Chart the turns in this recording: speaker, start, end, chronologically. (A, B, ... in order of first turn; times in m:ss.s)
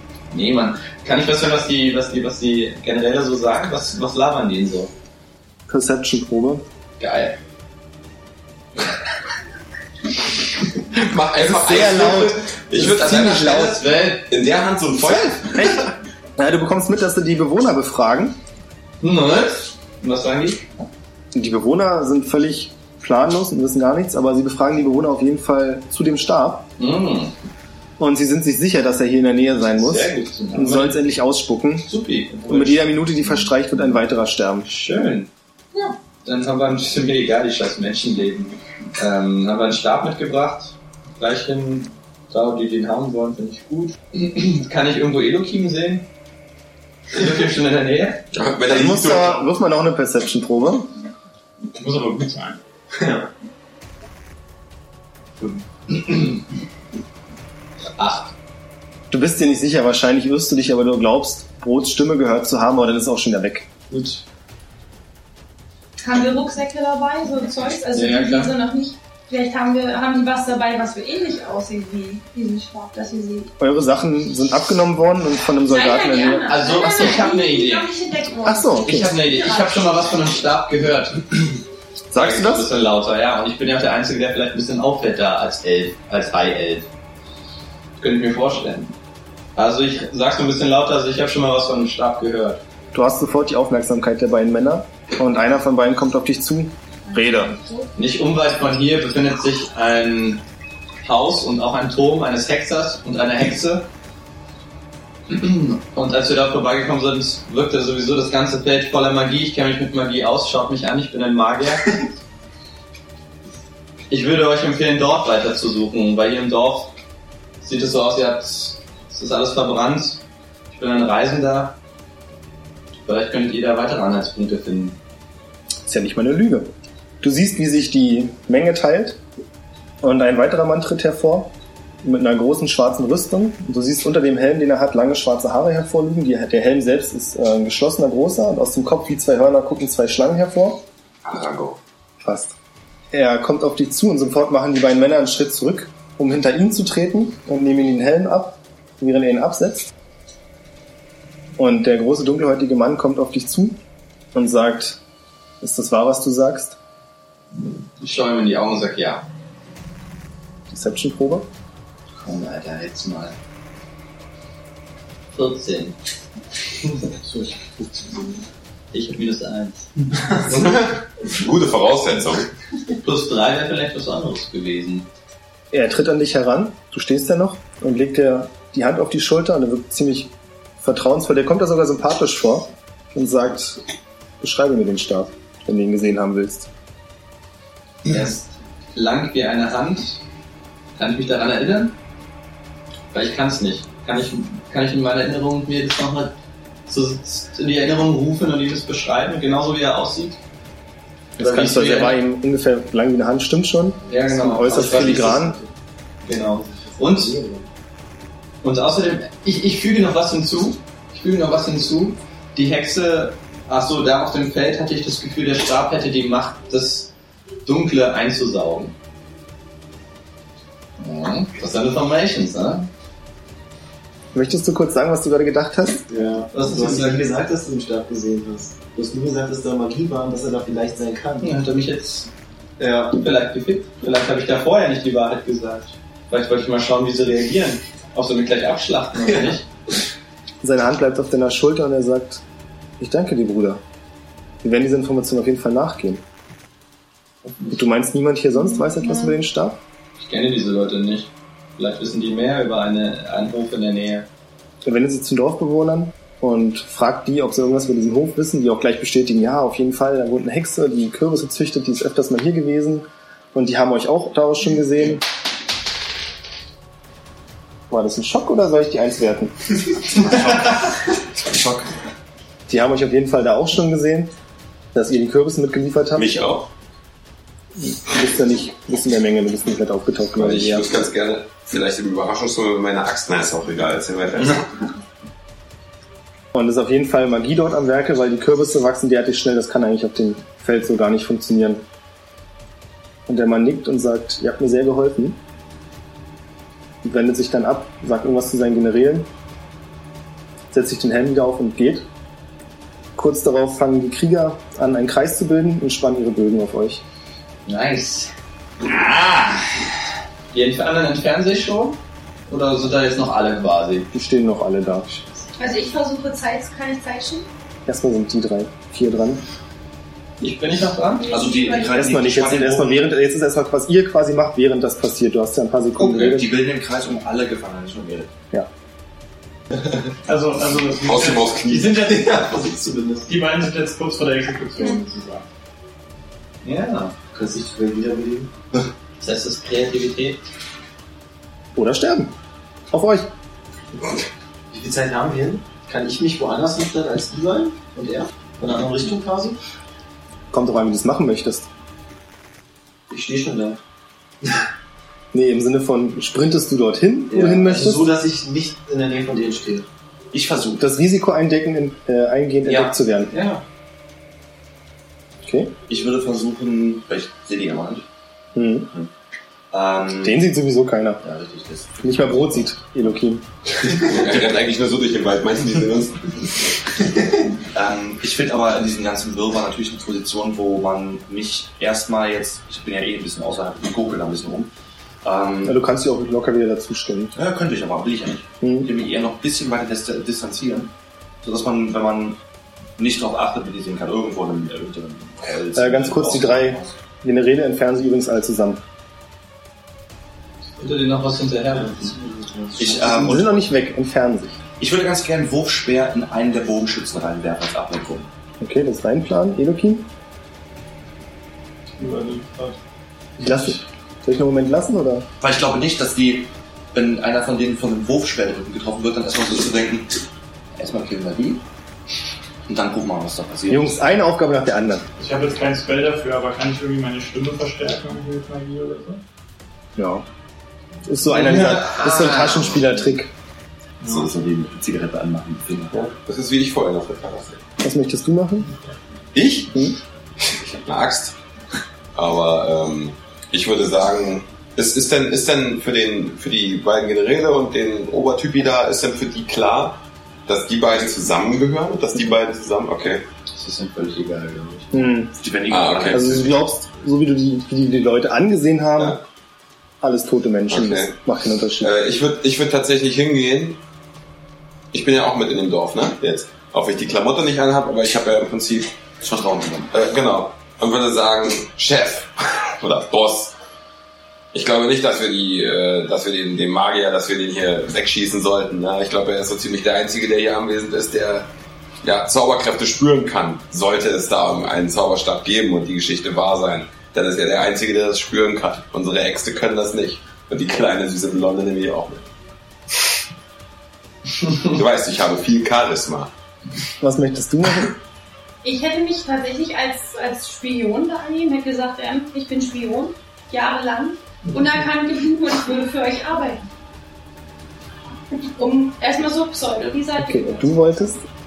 0:00.3-0:04.9 A
0:05.7-0:06.6 B
0:07.0-0:07.4 A
0:10.9-0:13.7 C
0:11.4-0:13.8 B
0:12.7-0:14.2 A
0:14.3-0:15.9 C
0:15.0-0:15.8 B
0:16.4-0:18.4 B
0:19.0-0:20.6 A
0:21.3-0:26.7 B
0:26.8-0:27.3 A
0:28.0-0:31.9 B
0:29.8-0:31.0 A
0:31.8-0:33.0 A
0:32.5-0:34.7 B
0:34.6-0:46.1 A
0:47.1-0:48.2 A
0:48.3-0:49.4 C
0:48.6-0:50.9 B
0:51.8-0:52.6 D
0:55.4-0:56.4 A
0:58.0-0:58.3 A
0:59.1-1:03.7 B
1:03.9-1:04.2 A
1:06.0-1:13.5 E
1:07.9-1:08.6 A
1:13.6-1:16.5 B
1:15.7-1:19.8 E
1:16.5-1:17.9 A
1:18.4-1:19.2 B
1:18.8-1:21.6 A
1:22.1-1:22.7 B
1:22.1-1:26.9 A
1:28.0-1:28.9 A
1:29.6-1:32.6 A
1:32.9-1:37.6 B
1:37.1-1:37.9 E
1:37.9-1:40.4 A
1:41.0-1:43.9 A
1:45.3-1:51.9 A
1:54.1-1:56.9 A
1:57.6-2:01.8 A
2:03.0-2:05.0 A
2:05.9-2:09.2 B
2:10.0-2:20.8 B
2:21.2-2:21.8 C
2:22.2-2:22.5 B
2:23.1-2:29.9 B
2:31.6-2:33.8 B
2:34.3-2:35.0 B
2:35.6-2:36.8 B
2:38.0-2:39.2 A
2:40.7-2:41.5 B
2:42.2-2:43.4 A
2:45.3-2:46.0 A
2:47.2-2:47.5 A
2:48.9-2:49.9 A
2:50.4-2:52.5 C
2:53.0-2:55.1 A
2:55.7-3:03.8 B
3:04.4-3:06.7 B
3:08.1-3:10.2 A
3:11.0-3:12.0 A
3:13.1-3:16.3 A
3:16.9-3:20.4 A
3:21.4-3:25.6 B
3:21.4-3:22.2 A
3:24.1-3:25.5 A
3:24.6-3:25.7 F
3:26.2-3:27.4 A
3:26.3-3:27.7 F
3:28.6-3:37.1 A
3:37.6-3:38.9 A
3:41.0-3:42.9 A
3:44.3-3:46.1 B
3:46.1-3:51.5 F
3:46.5-3:47.2 A
3:51.4-3:52.3 A
3:52.8-3:53.1 F
3:52.9-3:59.7 A
4:00.6-4:02.4 B
4:03.0-4:03.8 B
4:04.6-4:06.2 B
4:07.4-4:07.7 A
4:07.7-4:09.8 B
4:08.6-4:09.4 E
4:10.2-4:14.3 A
4:14.8-4:25.2 B
4:27.9-4:29.5 B
4:30.3-4:30.6 G
4:31.4-4:31.8 G
4:32.7-4:34.3 B
4:34.9-4:36.5 B
4:36.2-4:36.6 C
4:37.8-4:40.9 B
4:40.4-4:44.8 C
4:46.5-4:51.8 B
4:53.3-4:55.4 B
4:57.0-4:59.3 B
5:00.7-5:02.1 B
5:03.2-5:07.0 B
5:07.6-5:08.3 A
5:08.8-5:09.6 A
5:10.5-5:14.1 A
5:14.1-5:15.2 B
5:15.6-5:17.5 E
5:17.8-5:19.4 B
5:20.4-5:21.4 A
5:21.2-5:22.0 E
5:21.3-5:23.0 G
5:21.9-5:26.5 B
5:26.0-5:28.3 G
5:30.2-5:32.2 D
5:31.0-5:32.2 C
5:31.7-5:33.3 F
5:33.3-5:35.4 D
5:36.6-5:37.1 A
5:37.3-5:38.5 F
5:39.2-5:40.4 A
5:41.7-5:42.3 B
5:42.9-5:43.3 B
5:44.7-5:49.6 F
5:50.5-5:51.7 B
5:53.1-5:53.8 F
5:55.3-5:58.1 B
5:57.3-5:59.9 F
6:00.3-6:00.8 G
6:00.8-6:03.3 B
6:03.3-6:03.6 F
6:05.4-6:05.7 B
6:05.9-6:08.0 G
6:08.5-6:08.9 B
6:09.7-6:10.4 G
6:10.2-6:11.2 B
6:11.2-6:12.4 G
6:12.0-6:13.4 B
6:13.9-6:16.4 C
6:17.7-6:24.7 G
6:25.2-6:25.8 G
6:25.6-6:27.4 B
6:27.3-6:30.9 G
6:28.6-6:28.9 B
6:31.4-6:32.4 G
6:33.0-6:37.0 G
6:35.7-6:38.8 B
6:40.8-6:42.1 A
6:41.7-6:43.1 F
6:42.8-6:43.6 G
6:43.0-6:44.6 B
6:44.8-6:48.3 G
6:48.6-6:50.1 B
6:52.0-6:52.8 D
6:53.4-6:55.3 B
6:55.4-7:00.1 G
7:00.8-7:01.6 G
7:02.7-7:03.9 G
7:03.7-7:05.1 B
7:05.2-7:09.2 D
7:10.0-7:10.2 B
7:11.0-7:13.3 B
7:11.7-7:12.6 A
7:14.0-7:16.0 G
7:15.9-7:17.6 C
7:17.8-7:18.7 B
7:19.7-7:20.0 B
7:20.5-7:21.3 C
7:22.1-7:33.2 C
7:33.5-7:35.1 A
7:34.9-7:35.4 B
7:35.4-7:36.5 G
7:35.7-7:36.2 C
7:36.1-7:39.2 B
7:40.0-7:41.9 B
7:40.7-7:41.1 C
7:41.8-7:43.8 C
7:44.9-7:48.9 C
7:49.2-7:49.9 G
7:49.9-7:53.5 C
7:54.5-8:01.5 C
8:02.0-8:12.2 C
8:14.6-8:16.3 C
8:17.0-8:18.0 B
8:18.6-8:26.6 E
8:28.6-8:30.7 E
8:30.2-8:31.2 B